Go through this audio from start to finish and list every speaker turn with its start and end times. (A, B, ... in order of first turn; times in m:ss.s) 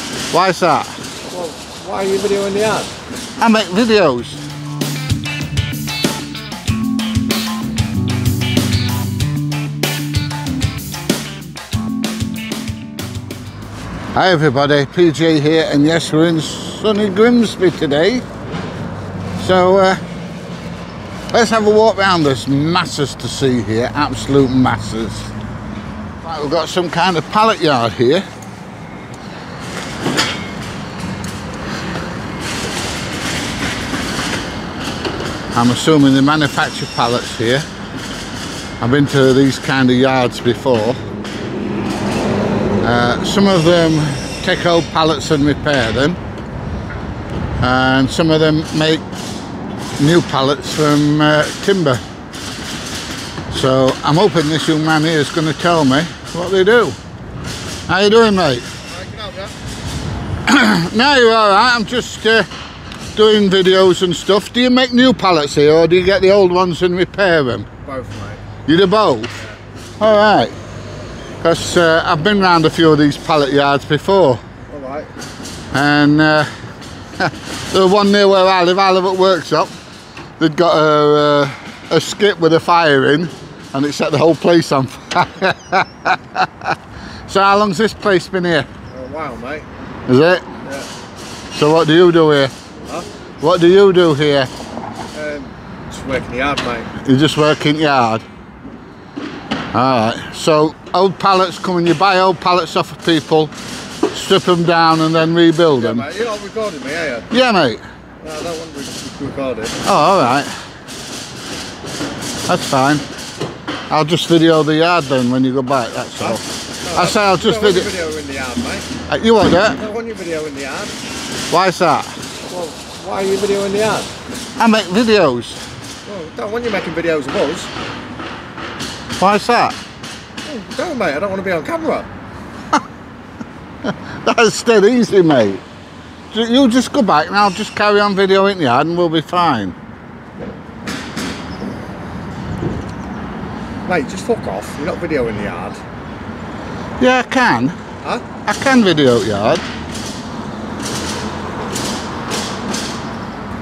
0:00.3-0:00.9 A
0:01.3-0:02.9 B
0:03.4-0:04.4 A
0:14.2-0:18.2 A
0:19.4-0:20.0 A
0:21.3-0:25.3 A
0:26.2-0:28.2 A
0:35.5-0:37.7 A
0:38.8-0:41.0 A
0:42.8-0:46.2 A
0:47.6-0:49.0 A
0:50.0-0:52.0 A
0:53.5-0:57.0 A
0:57.9-0:58.7 A
0:58.9-0:59.5 B
1:00.5-1:02.5 A
1:03.1-1:07.7 A
1:07.8-1:08.4 B
1:08.7-1:09.3 A
1:10.0-1:10.5 A
1:11.4-1:14.4 A
1:14.7-1:15.1 B
1:15.7-1:16.5 A
1:17.2-1:19.7 A
1:20.4-1:26.8 A
1:27.3-1:28.7 A
1:28.9-1:29.7 B
1:30.1-1:30.4 A
1:30.6-1:30.9 B
1:31.5-1:32.5 A
1:33.4-1:34.5 A
1:35.1-1:36.9 B
1:37.0-1:38.2 A
1:39.7-1:43.5 A
1:44.1-1:46.1 A
1:45.8-1:47.3 B
1:47.3-1:47.8 A
1:48.2-1:49.8 B
1:49.8-1:50.5 A
1:52.5-1:53.0 A
1:53.9-1:57.9 A
1:56.2-1:58.9 B
1:59.1-1:59.8 A
1:59.7-2:00.9 B
2:01.5-2:02.1 A
2:02.5-2:04.1 B
2:04.6-2:05.6 A
2:06.1-2:07.7 B
2:09.2-2:09.8 A
2:10.4-2:12.1 B
2:13.8-2:15.6 A
2:16.3-2:19.8 A
2:23.9-2:25.8 B
2:27.0-2:27.8 A
2:28.4-2:29.6 A